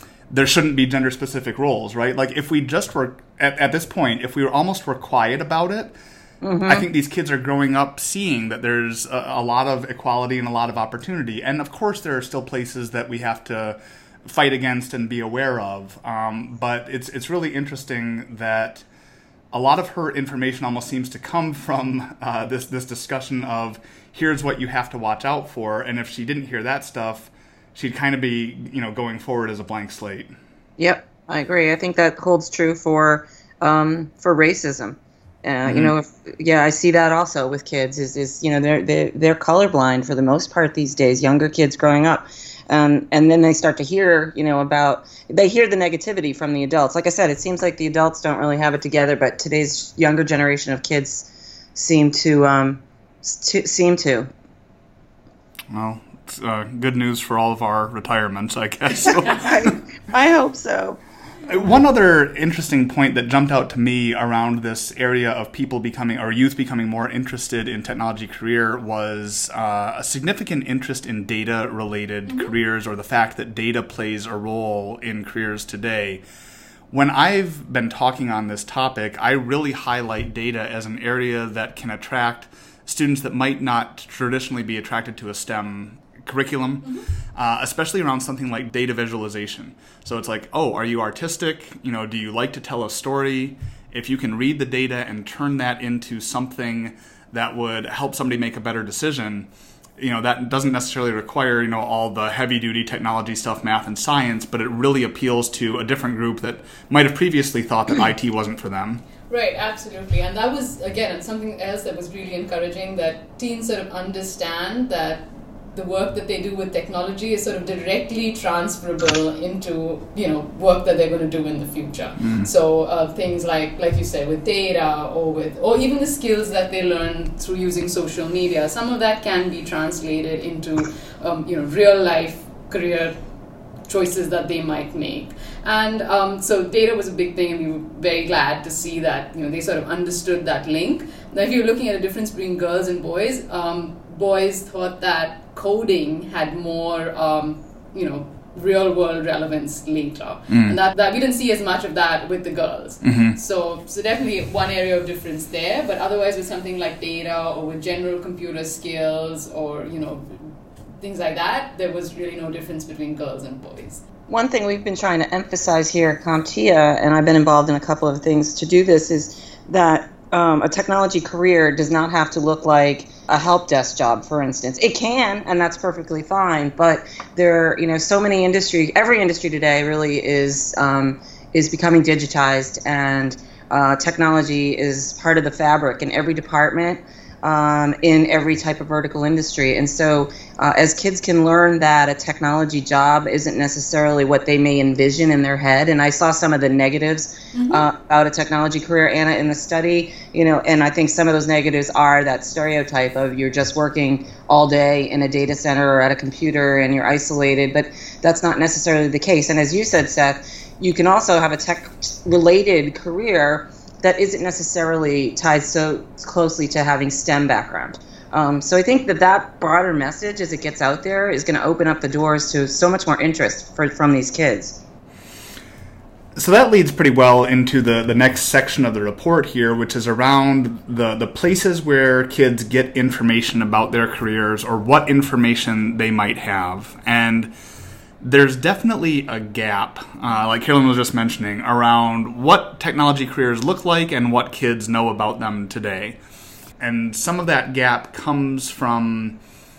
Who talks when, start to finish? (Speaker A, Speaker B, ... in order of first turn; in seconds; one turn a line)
Speaker A: 0.3-6.0
Speaker B: 6.4-6.9
Speaker A: 6.7-18.9
Speaker A: 19.5-30.3
Speaker B: 30.8-54.3
Speaker A: 35.7-35.9
Speaker A: 55.7-59.8
Speaker B: 59.2-61.0
Speaker A: 61.5-76.2
Speaker C: 72.3-72.5
Speaker A: 76.9-109.0
Speaker C: 109.3-133.2
Speaker A: 122.2-122.5
Speaker C: 133.9-164.0
Speaker A: 150.5-150.8
Speaker A: 153.0-153.4
Speaker B: 164.3-224.8
Speaker C: 197.5-197.9
Speaker A: 226.4-237.5
Speaker A: 238.2-246.2
Speaker A: 246.8-249.4